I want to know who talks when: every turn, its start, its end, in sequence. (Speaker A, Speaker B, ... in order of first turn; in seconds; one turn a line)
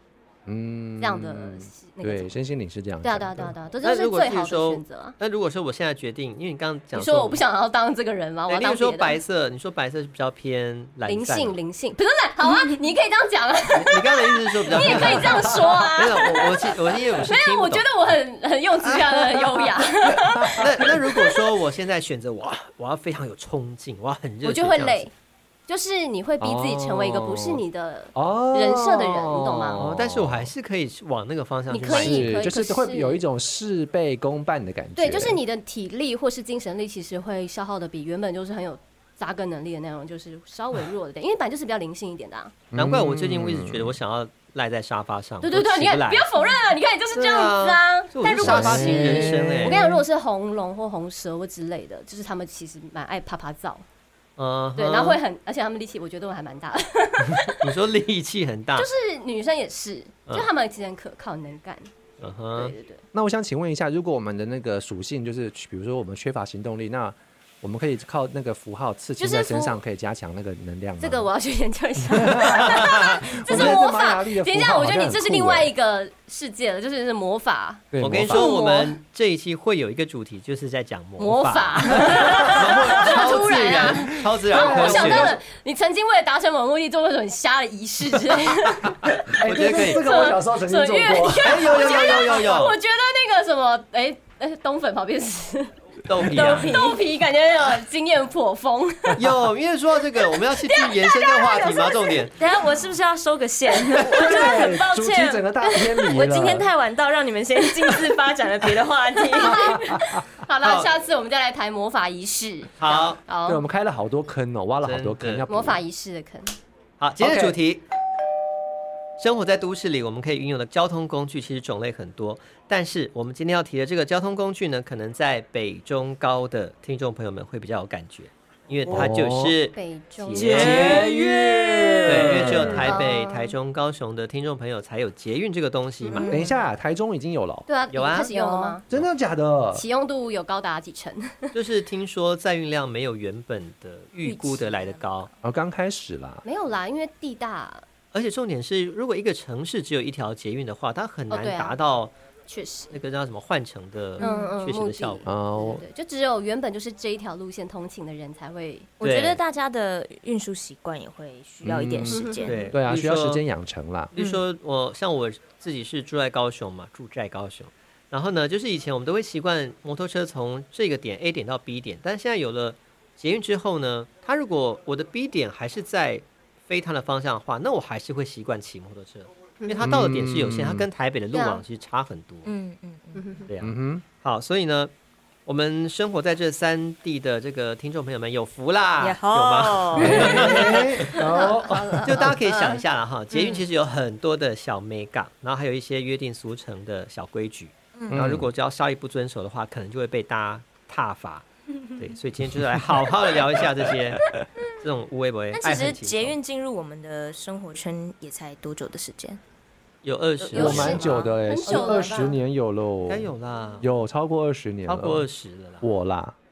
Speaker A: 0.5-3.5
Speaker B: 1.0-2.4
Speaker B: 3.0-5.2
Speaker C: 3.8-7.4
Speaker B: 6.9-9.2
Speaker C: 8.5-11.6
Speaker B: 11.1-21.4
Speaker C: 13.7-18.0
Speaker A: 14.8-15.9
Speaker C: 19.0-19.4
Speaker A: 20.2-20.7
Speaker C: 20.6-25.1
Speaker B: 24.4-25.1
Speaker B: 25.7-29.9
Speaker A: 26.4-27.6
Speaker A: 28.1-30.5
Speaker C: 29.8-32.4
Speaker B: 31.7-33.2
Speaker A: 31.9-35.4
Speaker B: 35.0-42.5
Speaker A: 42.7-44.0
Speaker C: 42.8-46.3
Speaker B: 45.4-53.9
Speaker C: 47.1-49.8
Speaker A: 48.4-50.0
Speaker C: 54.4-55.2
Speaker B: 54.8-57.7
Speaker C: 57.6-58.9
Speaker B: 58.8-61.9
Speaker C: 62.2-62.7
Speaker B: 62.5-63.0
Speaker A: 63.1-71.2
Speaker B: 69.2-69.8
Speaker B: 71.0-79.0
Speaker A: 72.1-75.7
Speaker C: 72.7-72.9
Speaker C: 73.5-73.8
Speaker A: 77.9-78.5
Speaker C: 78.0-85.4
Speaker B: 81.2-89.2
Speaker A: 84.5-85.4
Speaker A: 89.2-92.4
Speaker C: 89.4-90.1
Speaker B: 89.8-99.2
Speaker C: 91.4-92.8
Speaker C: 96.1-96.8
Speaker D: 96.3-97.0
Speaker C: 99.2-102.4
Speaker B: 100.3-102.3
Speaker D: 102.4-110.0
Speaker A: 104.1-106.7
Speaker B: 109.3-113.6
Speaker A: 109.4-110.2
Speaker C: 110.6-110.9
Speaker C: 112.8-113.2
Speaker A: 113.5-115.8
Speaker C: 114.8-115.5
Speaker B: 115.5-116.6
Speaker C: 117.0-117.8
Speaker B: 117.2-117.5
Speaker C: 119.2-131.1
Speaker A: 128.9-129.6
Speaker B: 129.7-131.0
Speaker A: 130.4-133.0
Speaker D: 130.4-133.0
Speaker C: 132.1-136.4
Speaker B: 132.8-133.5
Speaker B: 136.0-136.3
Speaker D: 136.1-136.6
Speaker A: 136.3-137.7
Speaker B: 137.7-138.8
Speaker C: 137.9-138.3
Speaker D: 138.2-138.8
Speaker A: 138.9-139.8
Speaker B: 139.7-141.6
Speaker C: 141.5-145.3
Speaker D: 144.2-145.3
Speaker A: 145.4-146.4
Speaker B: 146.4-147.8
Speaker C: 148.1-152.1
Speaker B: 151.3-151.8
Speaker B: 152.5-153.0
Speaker C: 152.9-155.2
Speaker D: 154.2-154.5
Speaker B: 154.2-158.9
Speaker A: 155.2-155.8
Speaker D: 159.0-162.6
Speaker C: 159.0-159.4
Speaker A: 161.6-164.1
Speaker B: 162.1-162.7
Speaker C: 162.4-163.4
Speaker C: 164.1-182.5
Speaker D: 164.2-164.4
Speaker B: 179.6-179.9
Speaker A: 179.8-180.9
Speaker B: 181.3-181.6
Speaker D: 182.5-183.2
Speaker B: 183.2-183.5
Speaker C: 183.5-184.9
Speaker A: 183.6-184.0
Speaker C: 185.5-191.2
Speaker D: 189.0-190.7
Speaker A: 189.9-192.4
Speaker B: 191.3-192.8
Speaker C: 192.1-206.3
Speaker D: 193.3-193.6
Speaker A: 198.1-198.5
Speaker D: 205.5-209.4
Speaker C: 210.0-211.0
Speaker D: 210.4-212.2
Speaker B: 210.5-212.4
Speaker A: 210.5-215.3
Speaker C: 213.1-213.9
Speaker C: 214.9-215.9
Speaker A: 215.8-216.3